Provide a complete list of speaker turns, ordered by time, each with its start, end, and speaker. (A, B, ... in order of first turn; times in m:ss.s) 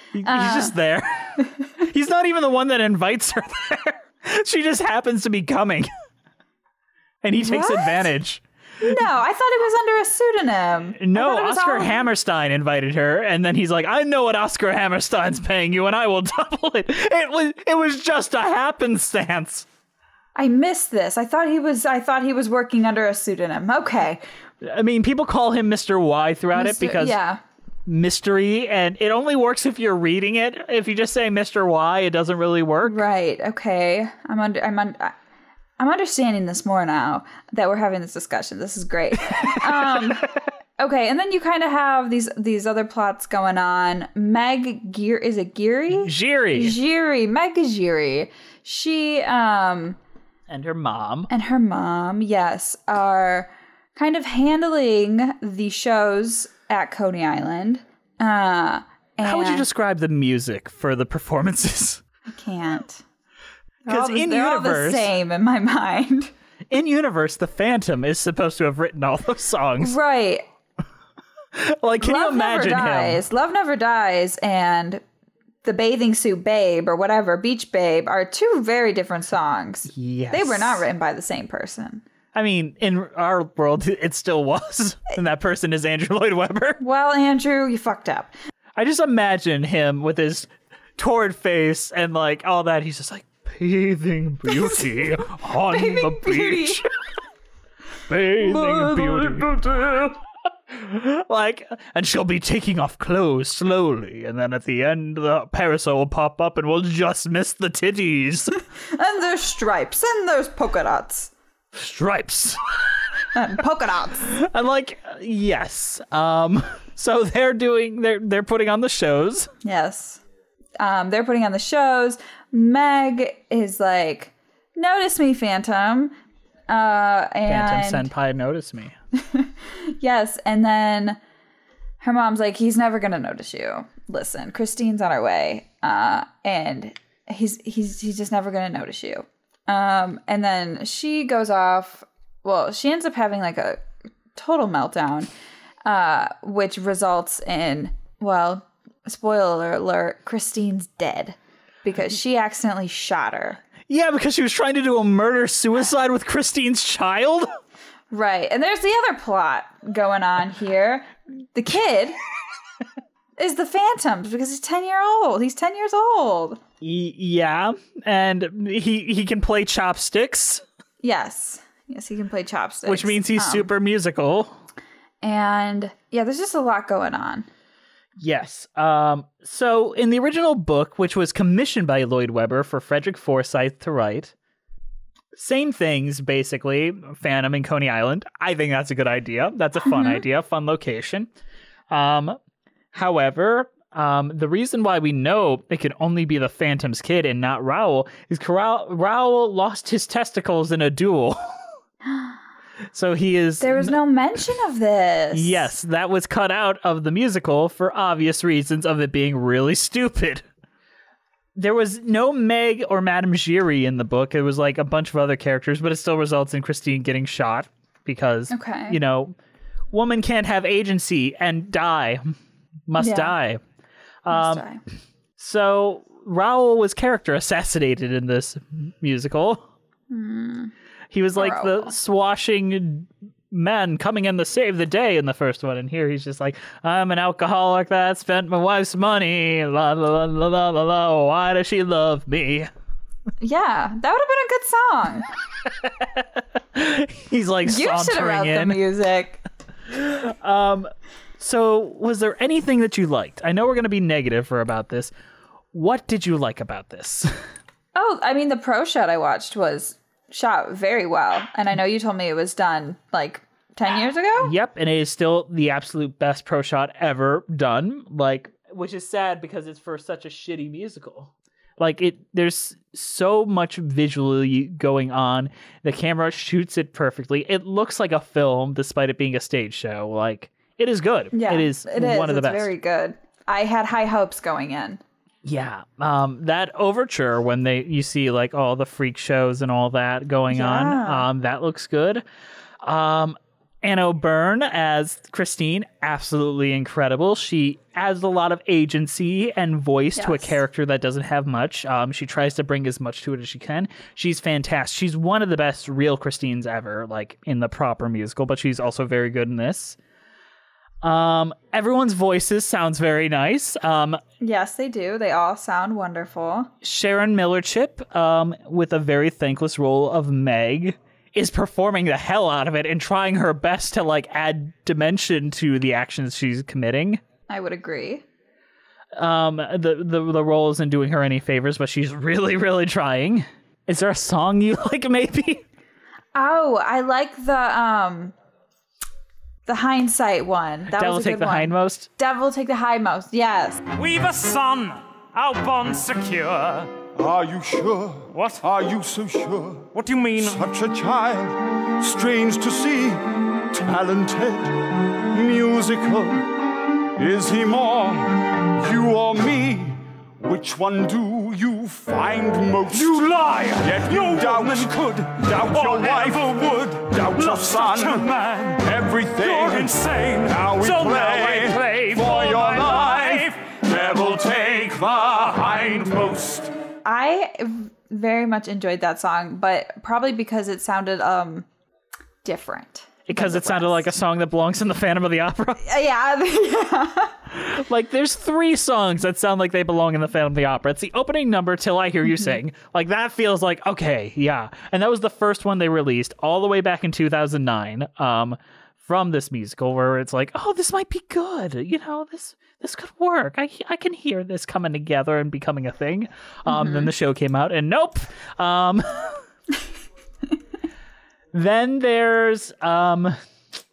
0:00.1-0:05.9 A
0:00.2-0:00.8 B
0:07.2-0:08.4 A
0:07.4-0:08.1 B
0:08.8-0:12.1 B
0:11.0-0:19.7 A
0:20.4-0:24.2 B
0:24.6-0:27.2 A
0:26.5-0:27.4 B
0:27.9-0:33.0 A
0:32.8-0:35.2 B
0:35.8-0:40.3 B
0:39.3-0:39.6 A
0:40.8-0:50.0 B
0:45.9-0:46.8 A
0:50.5-0:51.3 A
0:51.3-0:59.7 B
0:59.2-1:02.0 A
1:02.3-1:03.0 B
1:03.9-1:06.3 B
1:03.9-1:05.1 A
1:06.7-1:10.0 A
1:09.8-1:10.5 B
1:11.6-1:13.2 A
1:12.0-1:15.0 B
1:15.6-1:22.0 B
1:19.9-1:20.8 A
1:22.3-1:26.8 A
1:26.8-1:28.3 B
1:28.8-1:36.8 A
1:35.7-1:36.8 B
1:38.1-1:40.1 A
1:38.4-1:39.5 B
1:40.7-1:48.6 A
1:48.9-1:51.3 B
1:51.7-1:52.6 A
1:53.3-1:54.3 B
1:54.3-1:59.5 A
1:59.6-2:00.2 B
2:00.8-2:06.2 B
2:06.7-2:08.1 B
2:07.5-2:09.0 A
2:09.2-2:11.2 B
2:12.0-2:23.8 B
2:24.4-2:25.3 B
2:25.8-2:33.6 B
2:33.9-2:37.5 A
2:38.1-2:42.2 B
2:43.4-2:46.6 B
2:46.8-2:50.6 A
2:51.0-2:53.7 B
2:52.9-2:54.5 A
2:55.2-2:57.5 B
2:58.2-3:04.3 A
3:05.4-3:11.3 A
3:09.8-3:10.2 B
3:11.9-3:12.4 A
3:12.9-3:21.4 A
3:22.1-3:22.4 B
3:22.9-3:24.0 A
3:23.6-3:25.7 B
3:25.3-3:30.4 A
3:31.6-3:39.4 A
3:38.5-3:39.0 B
3:39.9-3:42.4 A
3:42.9-3:43.6 A
3:43.0-3:43.4 B
3:44.2-3:44.6 A
3:44.3-3:44.8 B
3:45.4-3:49.6 A
3:50.1-3:50.7 B
3:51.1-4:02.7 A
3:51.4-3:51.9 B
4:03.4-4:05.3 B
4:05.7-4:08.8 A
4:07.6-4:09.4 B
4:09.9-4:15.1 A
4:15.7-4:17.3 A
4:18.0-4:24.5 B
4:24.4-4:42.7 A
4:41.3-4:45.0 B
4:45.4-4:52.2 A
4:50.5-4:51.3 B
4:52.8-5:10.0 A
5:00.2-5:00.6 B
5:11.0-5:14.2 A
5:14.4-5:16.7 B
5:16.8-5:27.2 A
5:27.5-5:28.2 B
5:29.2-5:35.6 A
5:36.4-5:38.4 B
5:39.7-5:43.8 B
5:40.9-5:42.1 A
5:44.0-5:47.0 C
5:47.2-5:56.5 D
5:48.3-5:48.6 C
5:49.9-5:50.6 C
5:57.2-6:16.7 D
6:02.9-6:06.6 C
6:07.2-6:08.8 C
6:09.3-6:13.6 C
6:17.0-6:21.7 B
6:22.4-6:24.1 B
6:23.3-6:25.8 A
6:25.8-6:27.4 B
6:27.5-6:49.4 A
6:46.7-6:47.1 B
6:51.5-6:53.4 A